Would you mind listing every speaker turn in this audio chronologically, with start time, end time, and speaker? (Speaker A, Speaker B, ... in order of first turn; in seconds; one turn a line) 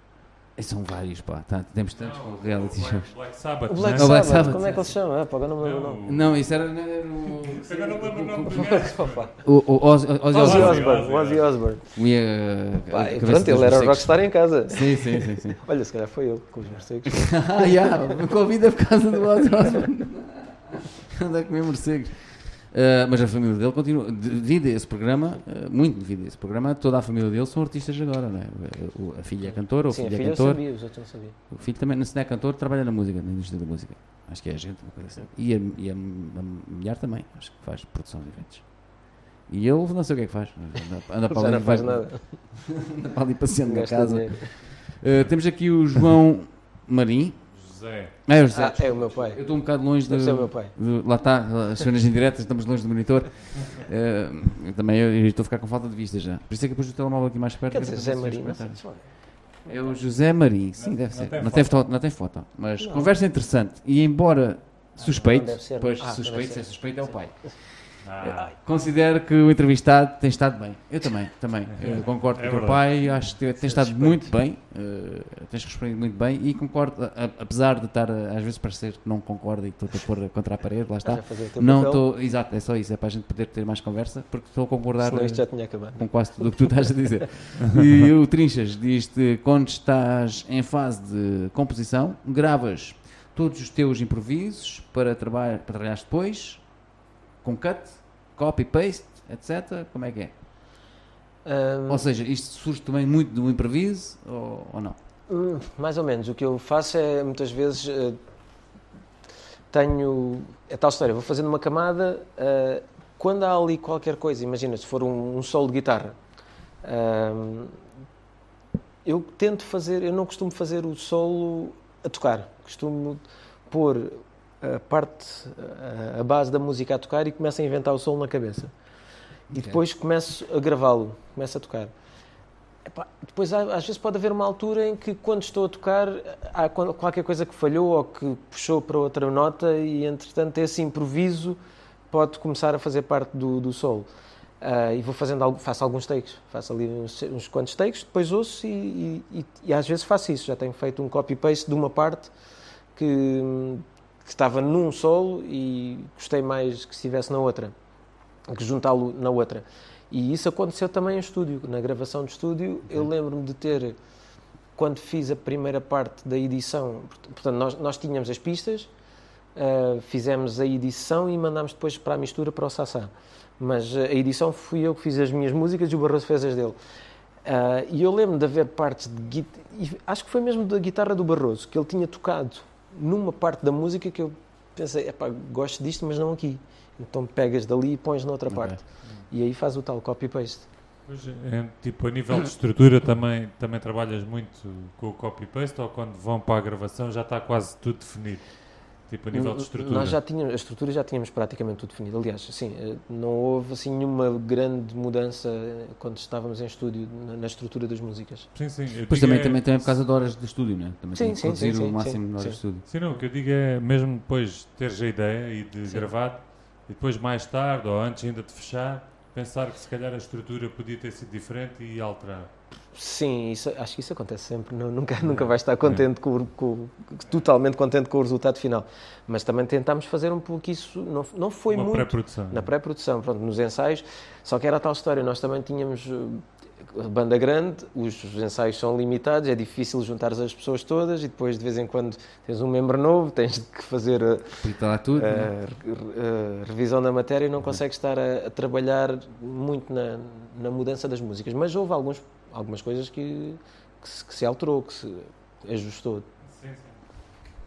Speaker A: 0.6-3.2
Speaker B: 2.0-4.5
Speaker C: 3.7-6.0
Speaker A: 3.9-4.9
Speaker B: 5.6-6.3
Speaker A: 6.1-8.5
Speaker B: 7.4-9.3
Speaker C: 8.4-9.5
Speaker A: 9.4-11.0
Speaker C: 10.3-11.9
Speaker B: 10.3-11.5
Speaker A: 11.9-15.6
Speaker C: 12.9-18.3
Speaker A: 17.1-30.6
Speaker C: 19.4-19.9
Speaker C: 29.4-31.4
Speaker A: 31.5-47.5
Speaker C: 41.3-42.4
Speaker C: 43.7-44.9
Speaker B: 47.5-48.2
Speaker A: 48.2-96.8
Speaker C: 48.4-50.8
Speaker C: 57.7-60.0
Speaker B: 60.8-61.8
Speaker C: 62.8-63.1
Speaker C: 65.0-67.6
Speaker B: 68.0-68.5
Speaker C: 68.2-68.5
Speaker B: 71.8-72.8
Speaker C: 73.6-74.3
Speaker C: 81.0-82.0
Speaker C: 85.0-87.2
Speaker A: 97.4-100.3
Speaker C: 101.5-102.1
Speaker A: 101.9-105.0
Speaker C: 105.3-108.2
Speaker C: 109.7-116.2
Speaker C: 116.8-117.8
Speaker C: 119.0-128.7
Speaker A: 129.5-129.8
Speaker C: 129.5-131.9
Speaker C: 132.8-141.6
Speaker C: 142.1-144.1
Speaker C: 144.6-152.3
Speaker C: 152.9-157.8
Speaker C: 158.5-164.0
Speaker C: 164.8-168.9
Speaker C: 169.6-176.8
Speaker C: 177.4-190.7
Speaker A: 188.5-188.8
Speaker B: 191.1-200.2
Speaker C: 199.3-208.5
Speaker B: 208.5-209.9
Speaker A: 209.1-212.9
Speaker C: 211.1-212.6
Speaker B: 212.9-222.5
Speaker C: 215.9-216.1
Speaker C: 222.9-256.3
Speaker B: 225.2-226.0
Speaker B: 231.7-232.7
Speaker A: 244.6-245.5
Speaker B: 256.5-257.0